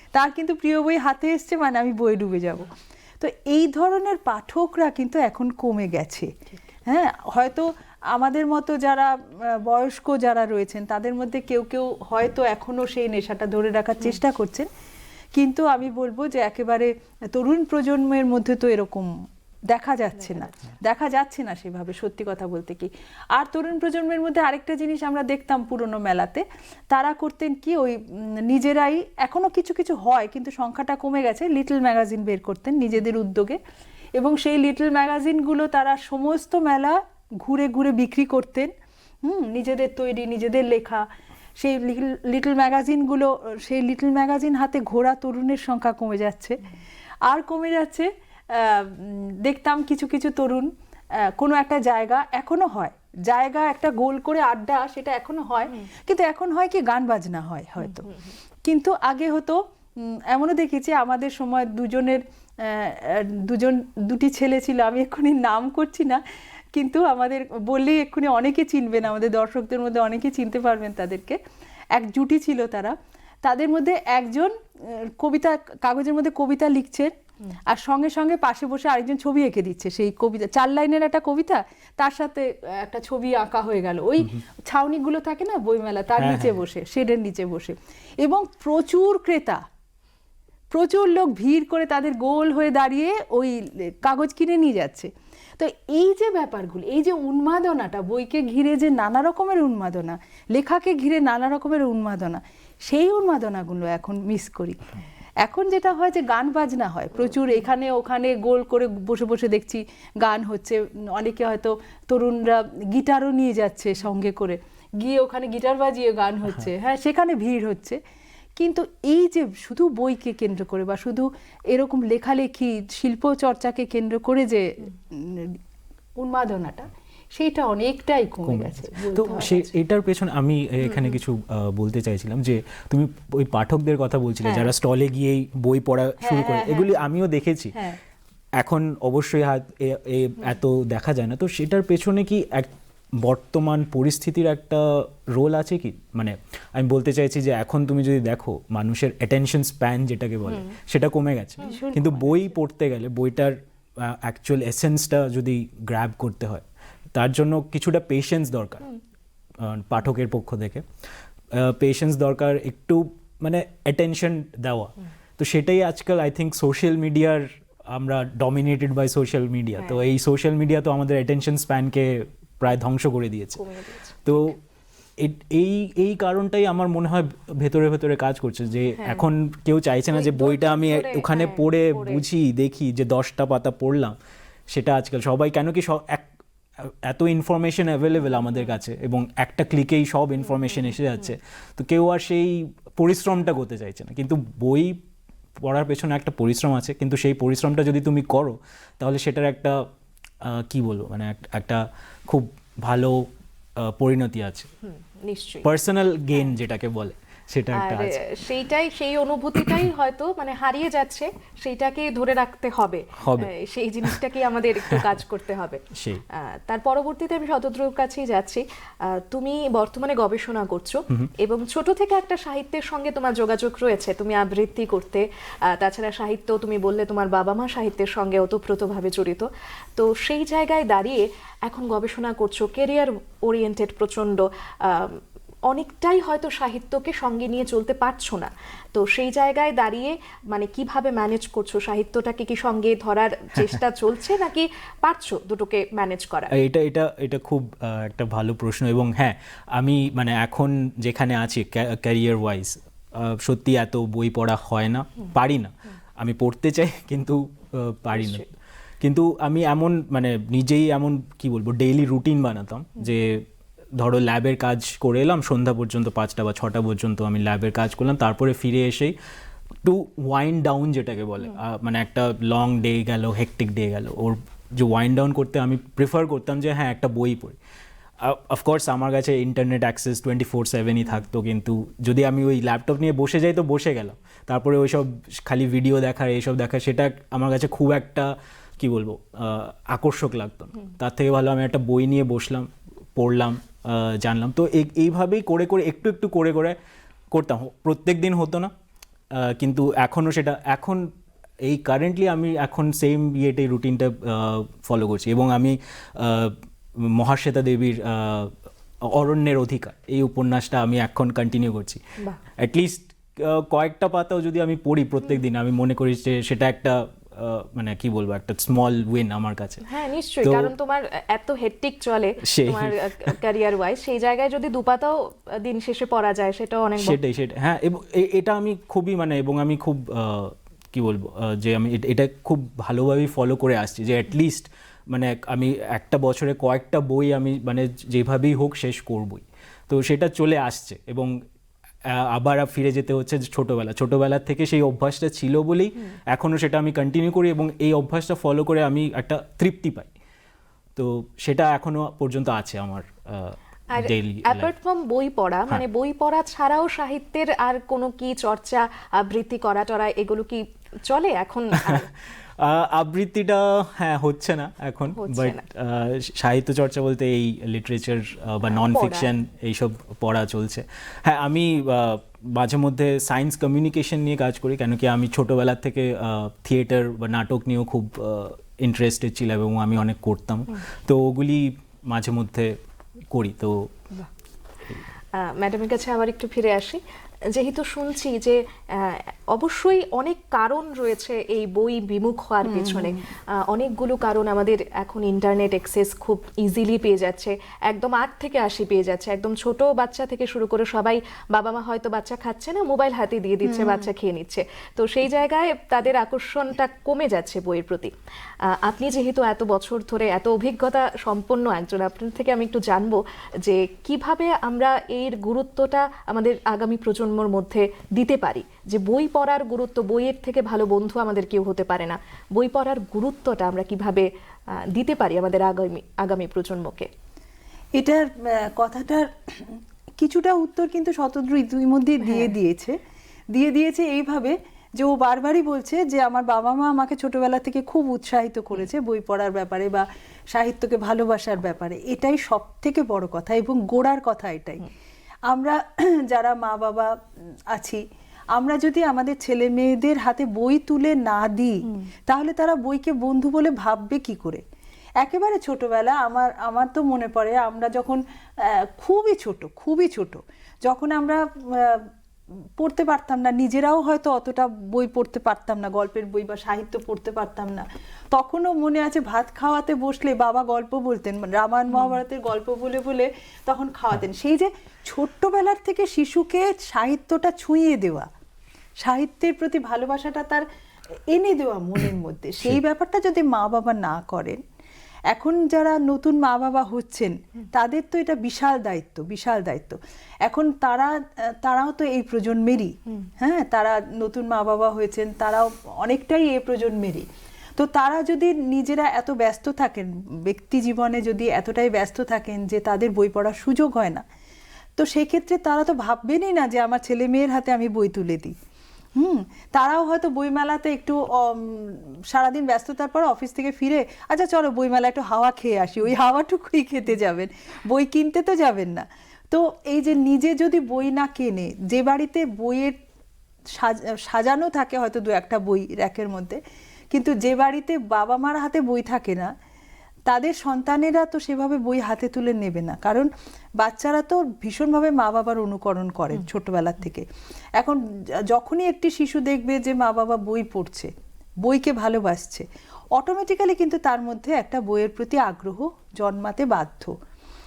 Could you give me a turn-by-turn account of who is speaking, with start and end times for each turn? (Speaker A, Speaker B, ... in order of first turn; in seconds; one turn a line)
Speaker A: 0.1-2.7
Speaker A: 3.2-6.3
Speaker A: 6.9-14.7
Speaker A: 15.3-19.1
Speaker A: 19.7-33.6
Speaker A: 34.2-38.7
Speaker A: 39.2-41.1
Speaker A: 41.6-46.6
Speaker A: 47.3-50.7
Speaker A: 51.2-66.2
Speaker A: 66.7-71.4
Speaker A: 71.9-77.1
Speaker A: 77.7-89.6
Speaker B: 86.2-86.6
Speaker A: 90.7-104.8
Speaker A: 105.4-118.0
Speaker A: 118.6-125.6
Speaker A: 126.2-129.7
Speaker B: 128.5-137.8
Speaker A: 136.2-137.0
Speaker B: 138.6-158.9
Speaker A: 151.6-152.5
Speaker B: 159.6-160.8
Speaker B: 161.5-173.6
Speaker C: 173.6-174.6
Speaker B: 174.2-174.6
Speaker B: 175.2-184.2
Speaker C: 179.0-179.2
Speaker C: 180.1-182.2
Speaker B: 184.7-186.3
Speaker B: 186.8-195.0
Speaker C: 190.7-190.9
Speaker B: 195.6-199.9
Speaker B: 200.4-203.3
Speaker B: 203.8-204.7
Speaker C: 204.8-205.7
Speaker B: 205.6-208.2
Speaker C: 207.7-246.6
Speaker B: 213.2-213.5
Speaker B: 214.9-215.2
Speaker B: 215.9-216.2
Speaker B: 246.5-258.5
Speaker C: 258.2-258.5
Speaker B: 259.0-263.5
Speaker B: 264.0-269.1
Speaker B: 269.8-277.6
Speaker B: 278.2-296.8
Speaker B: 297.3-298.7
Speaker B: 299.3-301.1
Speaker B: 301.6-312.0
Speaker B: 312.6-319.8
Speaker C: 319.9-327.2
Speaker B: 320.4-320.7
Speaker B: 322.4-323.3
Speaker B: 327.0-341.3
Speaker B: 342.1-350.1
Speaker B: 351.0-354.7
Speaker C: 353.9-362.1
Speaker B: 361.8-362.1
Speaker B: 362.6-382.8
Speaker C: 365.2-365.6
Speaker C: 368.7-369.3
Speaker B: 383.3-383.9
Speaker C: 385.3-408.1
Speaker A: 392.6-393.2
Speaker A: 403.6-404.1
Speaker C: 408.7-424.3
Speaker C: 424.8-427.1
Speaker A: 428.0-433.0
Speaker A: 433.5-444.9
Speaker A: 445.5-447.2
Speaker A: 447.7-448.0
Speaker A: 448.5-454.6
Speaker A: 455.2-462.1
Speaker A: 462.8-478.3
Speaker A: 479.0-480.7
Speaker A: 481.3-484.6
Speaker A: 485.3-504.2
Speaker A: 505.0-508.6
Speaker A: 509.2-523.0
Speaker A: 523.7-526.6
Speaker A: 527.1-529.5
Speaker A: 530.3-537.3
Speaker A: 537.8-541.1
Speaker A: 541.6-547.1